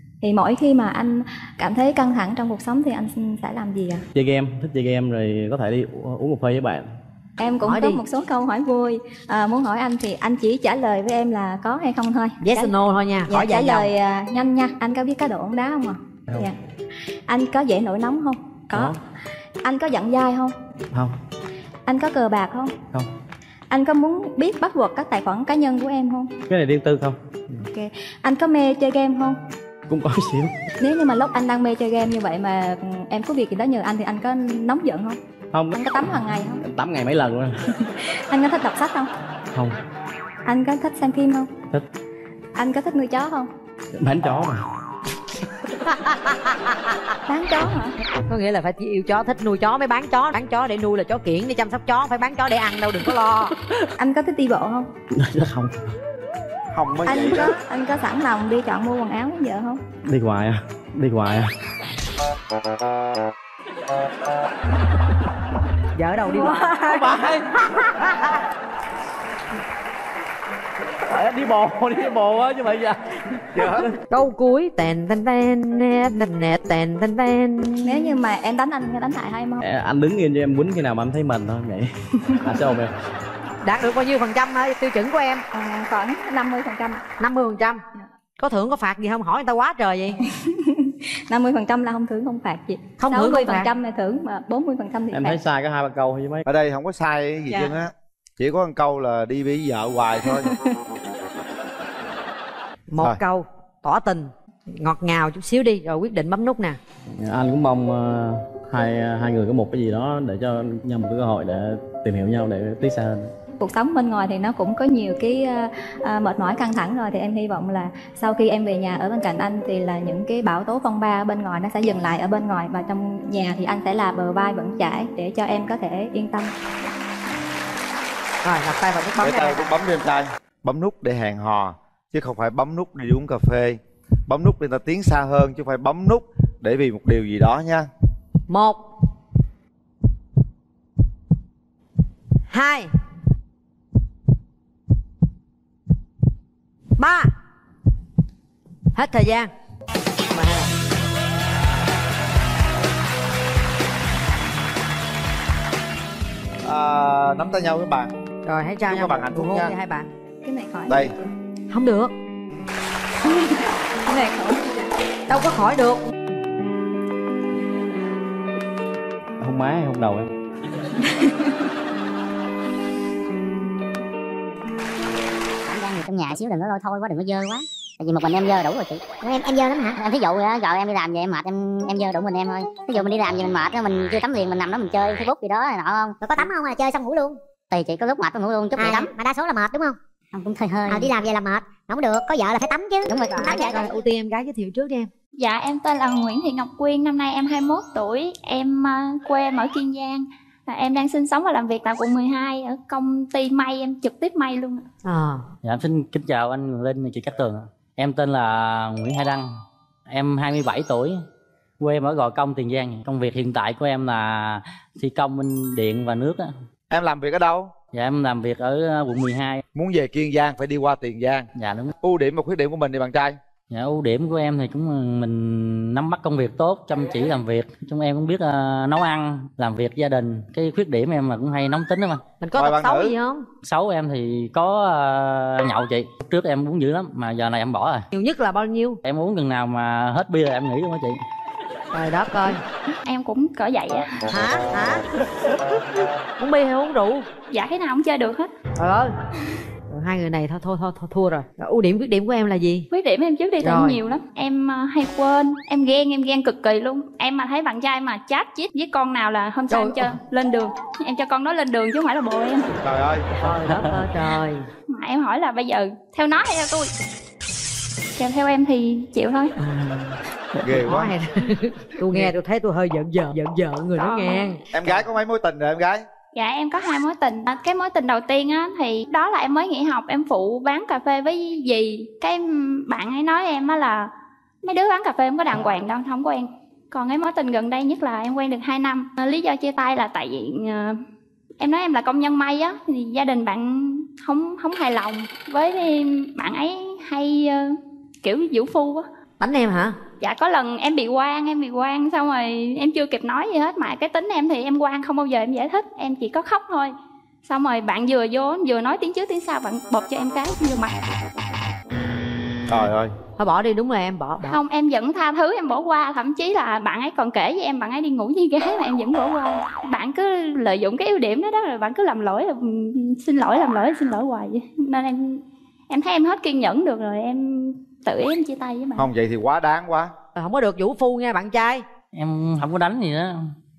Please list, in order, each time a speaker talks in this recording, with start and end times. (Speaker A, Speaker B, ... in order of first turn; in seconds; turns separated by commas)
Speaker A: 0.2-4.0, Speaker B: 4.2-7.0, Speaker A: 7.4-12.8, Speaker C: 7.6-8.0, Speaker C: 12.4-13.9, Speaker A: 13.3-16.6, Speaker A: 17.3-18.9, Speaker B: 18.7-19.0, Speaker A: 19.6-20.6, Speaker A: 21.9-22.8, Speaker A: 23.7-26.3, Speaker B: 26.5-27.6, Speaker A: 27.7-29.4, Speaker B: 29.9-30.5, Speaker A: 30.8-35.2, Speaker A: 35.7-36.6, Speaker B: 36.6-37.6, Speaker A: 37.9-39.1, Speaker A: 40.5-41.5, Speaker A: 42.6-43.5, Speaker B: 44.0-44.6, Speaker C: 45.9-47.0, Speaker A: 47.3-48.0, Speaker C: 48.3-53.5, Speaker A: 54.0-54.9, Speaker B: 55.1-55.9, Speaker D: 56.7-57.5, Speaker A: 57.1-59.8, Speaker B: 60.1-61.5, Speaker C: 66.0-67.2, Speaker B: 66.8-67.4, Speaker B: 71.1-73.9, Speaker C: 74.1-78.1, Speaker A: 77.8-79.6, Speaker B: 79.6-82.9, Speaker C: 83.6-85.5, Speaker A: 85.5-87.0, Speaker C: 87.2-87.8, Speaker C: 88.4-90.2, Speaker A: 90.4-95.4, Speaker C: 93.0-93.7, Speaker B: 95.1-96.4, Speaker D: 96.5-100.5, Speaker C: 102.9-106.8, Speaker B: 107.1-113.3, Speaker A: 113.6-126.5, Speaker C: 128.4-129.7, Speaker D: 129.2-137.9, Speaker C: 138.5-138.8, Speaker C: 142.5-142.9, Speaker C: 147.0-147.3, Speaker C: 148.9-149.5, Speaker C: 150.3-150.7, Speaker D: 156.6-158.1, Speaker C: 158.4-160.1, Speaker D: 158.9-159.7, Speaker A: 160.4-161.2, Speaker C: 161.7-162.1, Speaker A: 163.2-164.8, Speaker C: 165.3-166.0, Speaker B: 169.4-170.3, Speaker E: 175.7-194.0, Speaker C: 188.8-189.0, Speaker C: 193.1-195.1, Speaker F: 195.4-204.8, Speaker C: 205.1-205.4, Speaker G: 205.6-211.2, Speaker G: 211.8-216.5, Speaker D: 216.9-217.7, Speaker G: 217.9-219.6, Speaker D: 219.7-221.5, Speaker G: 221.6-221.9, Speaker D: 222.0-223.4, Speaker G: 223.7-232.3, Speaker C: 232.4-233.4, Speaker D: 232.6-233.2, Speaker G: 233.6-238.1, Speaker C: 238.1-239.0, Speaker G: 239.1-241.2, Speaker C: 241.9-242.6, Speaker F: 243.1-244.2, Speaker C: 244.3-245.1, Speaker C: 246.4-247.3, Speaker F: 247.5-248.5, Speaker C: 248.8-249.1, Speaker C: 249.9-252.9, Speaker F: 252.9-262.7, Speaker C: 253.6-254.0, Speaker C: 259.7-260.1, Speaker D: 262.8-263.3, Speaker C: 263.4-264.7, Speaker G: 263.7-264.0, Speaker F: 264.9-266.9, Speaker F: 268.2-269.6, Speaker C: 269.6-274.6, Speaker D: 270.6-271.2, Speaker F: 273.9-274.6, Speaker D: 274.7-276.1, Speaker F: 276.4-284.1, Speaker F: 284.6-291.0, Speaker F: 291.6-299.1, Speaker C: 299.4-300.0, Speaker F: 300.2-306.9, Speaker F: 307.4-311.2, Speaker D: 312.7-313.1, Speaker C: 313.4-314.6, Speaker F: 314.5-329.1, Speaker D: 329.0-330.1, Speaker C: 330.4-331.9, Speaker G: 332.1-333.5